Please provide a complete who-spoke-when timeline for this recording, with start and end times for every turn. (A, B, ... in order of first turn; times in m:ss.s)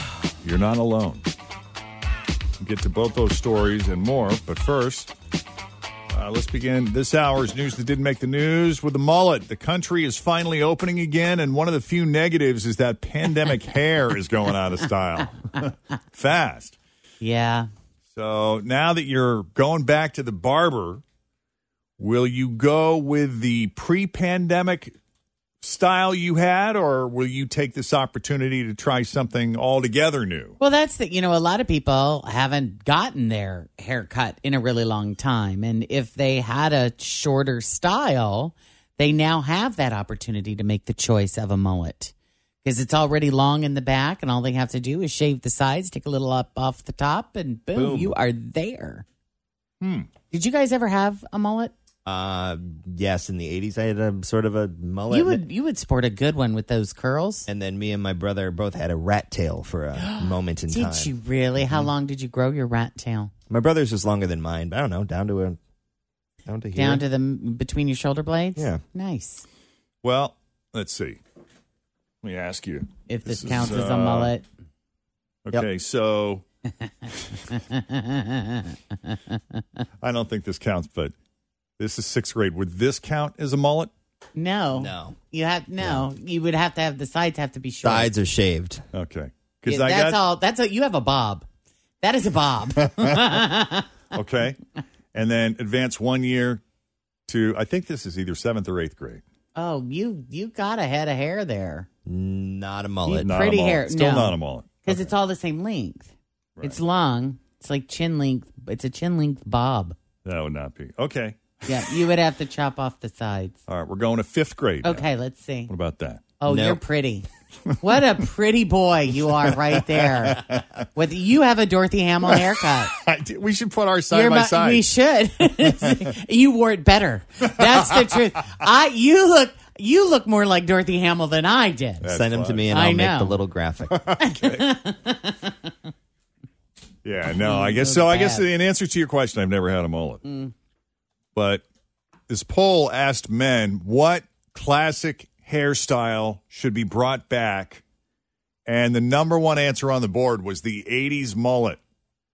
0:00.4-0:01.2 A
0:02.6-0:05.1 A
0:06.1-0:16.8 A
0:17.2-0:17.7 B
0:18.1-0:21.0 A
0:22.0-0:25.0 A
0:25.6-0:30.6 A
0:30.6-0:42.1 B
0:42.6-0:49.0 B
0:47.7-0:48.2 C
0:49.8-0:50.1 A
0:50.3-0:51.7 B
0:52.1-0:55.4 C
0:55.1-0:57.5 B
0:57.5-1:01.1 C
1:00.0-1:03.3 B
1:03.5-1:05.6 C
1:06.5-1:07.0 C
1:06.8-1:09.5 B
1:08.6-1:08.8 C
1:10.0-1:11.2 A
1:12.2-1:14.3 A
1:13.1-1:14.4 B
1:15.4-1:16.4 A
1:16.8-1:19.6 B
1:20.0-1:21.1 A
1:21.8-1:23.9 A
1:24.4-1:28.1 B
1:24.8-1:25.2 C
1:25.8-1:26.0 C
1:27.8-1:28.8 C
1:28.9-1:30.2 A
1:29.7-1:31.5 B
1:32.0-1:33.9 B
1:33.0-1:33.4 A
1:34.1-1:34.6 A
1:35.1-1:36.6 A
1:37.3-1:39.2 A
1:39.6-1:41.9 B
1:42.1-1:43.3 C
1:43.1-1:50.0 B
1:43.2-1:45.1 A
1:50.2-1:51.6 A
1:51.6-1:53.6 B
1:53.7-1:55.1 A
1:54.8-1:55.7 B
1:55.7-1:56.2 A
1:56.4-1:57.3 B
1:56.5-1:56.8 C
1:57.8-2:03.0 B
2:00.3-2:00.6 A
2:02.9-2:04.8 A
2:04.1-2:12.2 B
2:12.0-2:12.7 A
2:12.1-2:14.0 C
2:12.7-2:13.4 B
2:14.0-2:14.7 A
2:14.2-2:15.7 B
2:17.0-2:20.2 A
2:17.4-2:18.5 B
2:20.2-2:20.5 B
2:21.3-2:21.6 A
2:22.3-2:27.8 A
2:28.7-2:31.8 A